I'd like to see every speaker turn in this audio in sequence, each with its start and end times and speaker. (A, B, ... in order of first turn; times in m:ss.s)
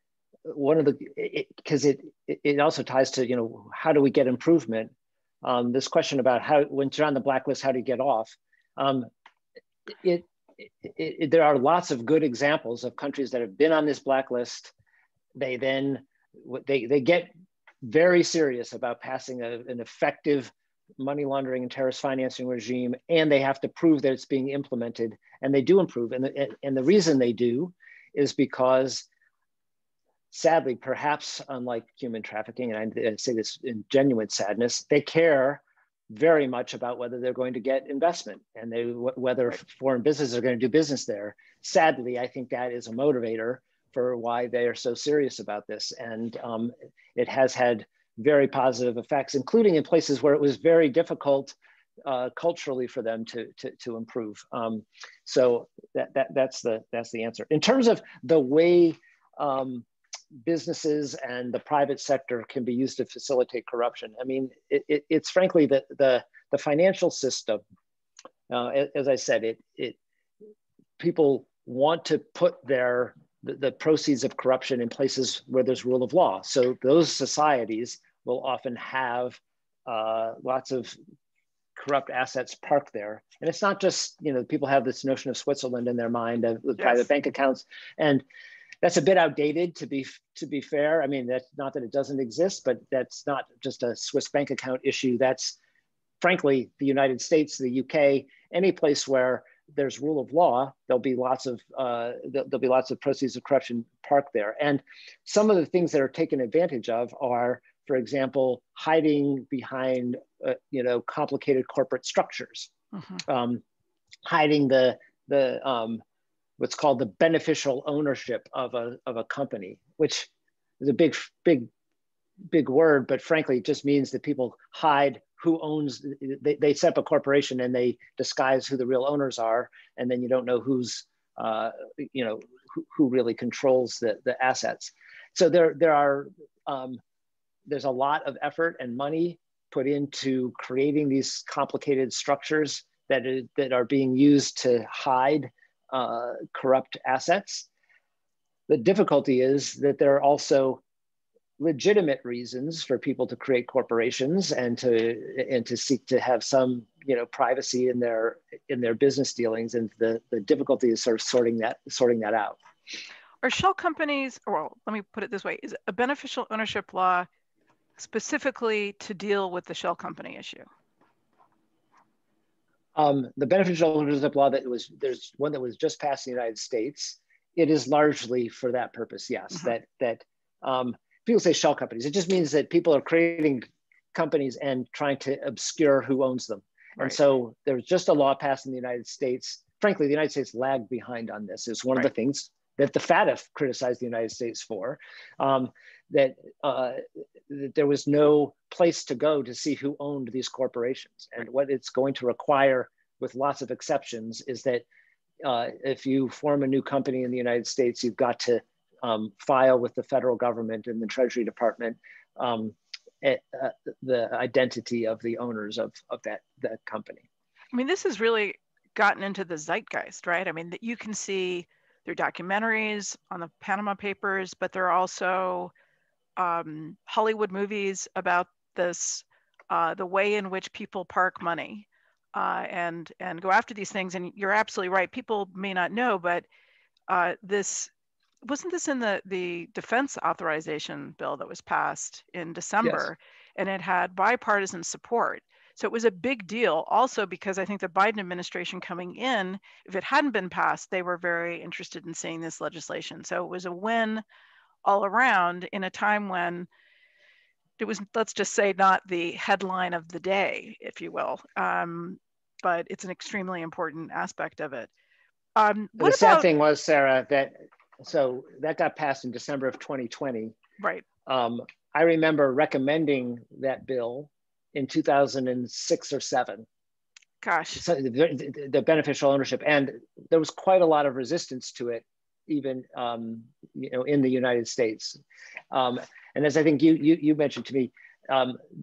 0:00.4-0:09.1 A
0:09.9-0:14.7 A
0:15.4-0:17.3 A
0:17.8-0:29.1 A
0:30.3-0:59.9 A
1:00.4-1:07.6 A
1:08.5-1:10.0 A
1:11.0-1:20.9 A
1:21.8-1:28.2 A
1:28.8-1:35.6 A
1:36.2-1:52.7 A
1:52.9-1:53.2 B
1:53.2-1:53.6 A
1:54.2-1:56.0 A
1:56.6-2:00.3 A
2:00.8-2:01.7 A
2:02.5-2:17.0 A
2:17.7-2:27.7 A
2:28.7-2:30.8 A
2:31.6-2:42.6 A
2:43.4-2:47.3 B
2:48.0-2:50.7 B
2:53.0-3:24.8 A
3:25.4-3:37.2 A
3:37.7-3:45.7 B
3:46.4-3:56.4 B
3:57.1-3:57.9 B
3:58.4-4:14.2 B
4:02.8-4:03.1 A
4:14.8-4:16.7 B
4:17.8-4:24.9 B
4:25.6-4:26.5 B
4:26.0-4:30.5 A
4:31.2-4:36.7 A
4:37.4-4:37.8 B
4:37.8-4:45.2 A
4:45.7-4:48.6 A